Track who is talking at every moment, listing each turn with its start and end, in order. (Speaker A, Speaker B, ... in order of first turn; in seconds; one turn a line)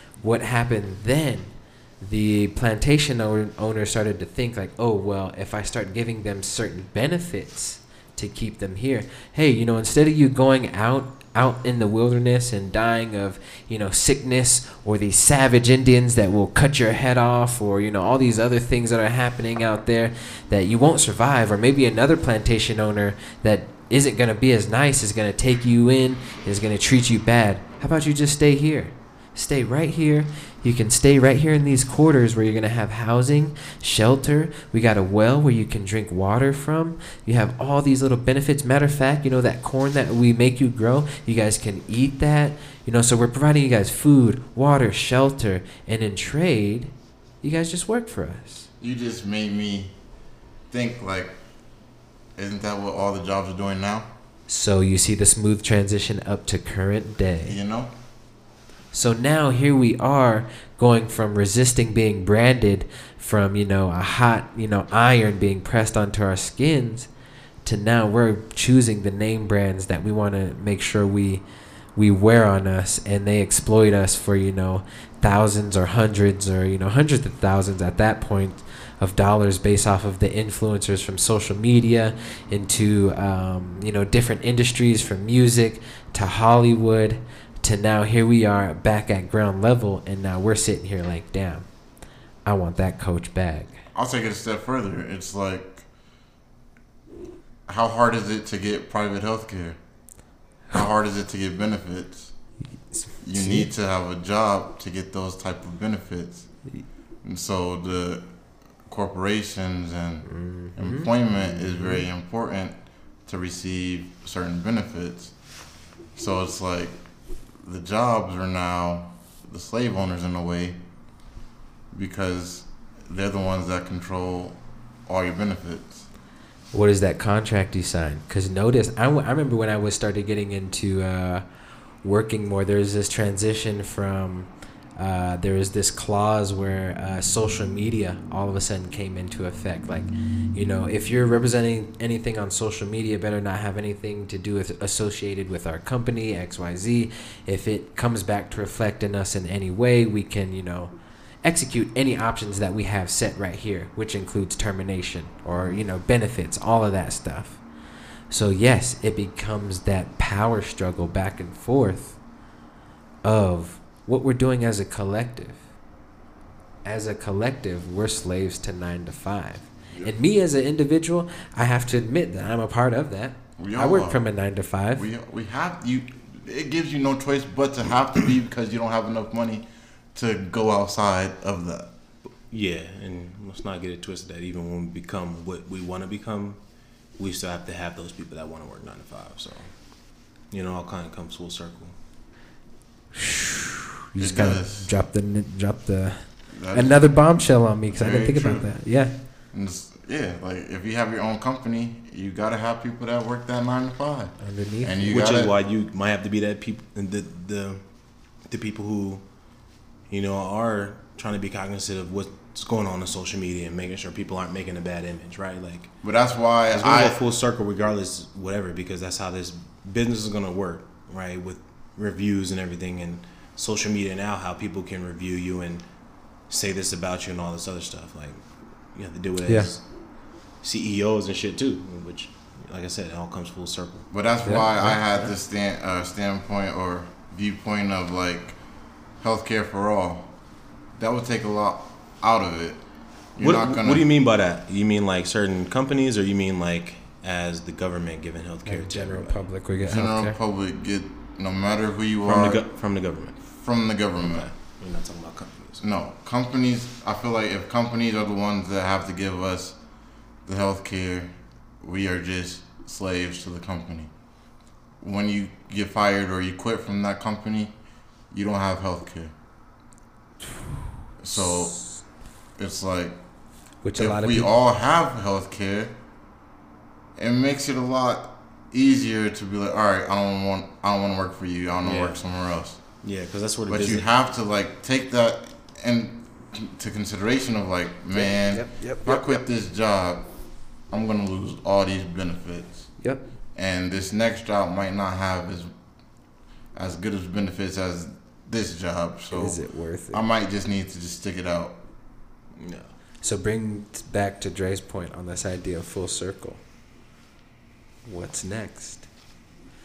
Speaker A: 0.2-48.7
Speaker B: 48.8-49.9
Speaker B: 50.7-51.4
Speaker B: 52.4-54.1
Speaker A: 54.5-57.5
Speaker B: 57.4-57.9
Speaker A: 58.9-67.1
Speaker A: 67.6-71.4
Speaker A: 72.0-91.7
Speaker A: 92.4-93.8
Speaker B: 93.9-95.8
Speaker B: 97.7-99.8
Speaker B: 100.7-102.3
Speaker B: 103.2-106.5
Speaker A: 103.3-103.7
Speaker B: 107.2-108.2
Speaker B: 108.9-115.3
Speaker A: 110.2-111.1
Speaker B: 116.1-117.0
Speaker B: 117.6-120.8
Speaker B: 121.9-126.0
Speaker A: 126.7-131.4
Speaker A: 132.0-157.6
Speaker A: 158.3-162.2
Speaker A: 163.2-165.6
Speaker A: 166.8-175.1
Speaker B: 173.6-174.2
Speaker B: 174.9-181.9
Speaker C: 182.5-186.6
Speaker C: 187.2-189.8
Speaker C: 190.5-191.9
Speaker A: 193.1-199.1
Speaker B: 194.2-194.9
Speaker B: 196.5-197.0
Speaker B: 197.9-198.7
Speaker B: 199.5-205.5
Speaker A: 204.4-205.0
Speaker C: 205.0-207.8
Speaker C: 208.5-209.2
Speaker C: 210.1-215.9
Speaker B: 216.0-217.2
Speaker C: 216.7-225.9
Speaker C: 226.5-229.9
Speaker C: 230.6-234.1
Speaker B: 234.1-238.6
Speaker A: 234.4-234.9
Speaker C: 234.9-235.3
Speaker B: 239.2-240.3
Speaker B: 240.9-242.8
Speaker B: 243.3-244.1
Speaker C: 243.4-249.4
Speaker A: 248.7-250.3
Speaker B: 249.8-252.6
Speaker C: 252.2-253.4
Speaker B: 253.5-254.5
Speaker C: 254.2-255.8
Speaker B: 255.8-259.8
Speaker B: 260.4-264.1
Speaker B: 265.0-267.7
Speaker B: 268.3-269.3
Speaker B: 271.2-271.8
Speaker A: 271.4-271.8
Speaker B: 272.6-273.2
Speaker A: 273.8-274.5
Speaker B: 273.9-275.9
Speaker B: 277.1-282.8
Speaker C: 281.8-282.2
Speaker C: 283.0-284.1
Speaker B: 283.7-290.2
Speaker A: 288.1-289.4
Speaker B: 290.9-292.9
Speaker B: 293.5-295.7
Speaker B: 296.7-299.6
Speaker A: 299.3-300.2
Speaker B: 300.1-301.8
Speaker C: 302.5-302.9
Speaker A: 303.2-306.6
Speaker A: 308.1-309.1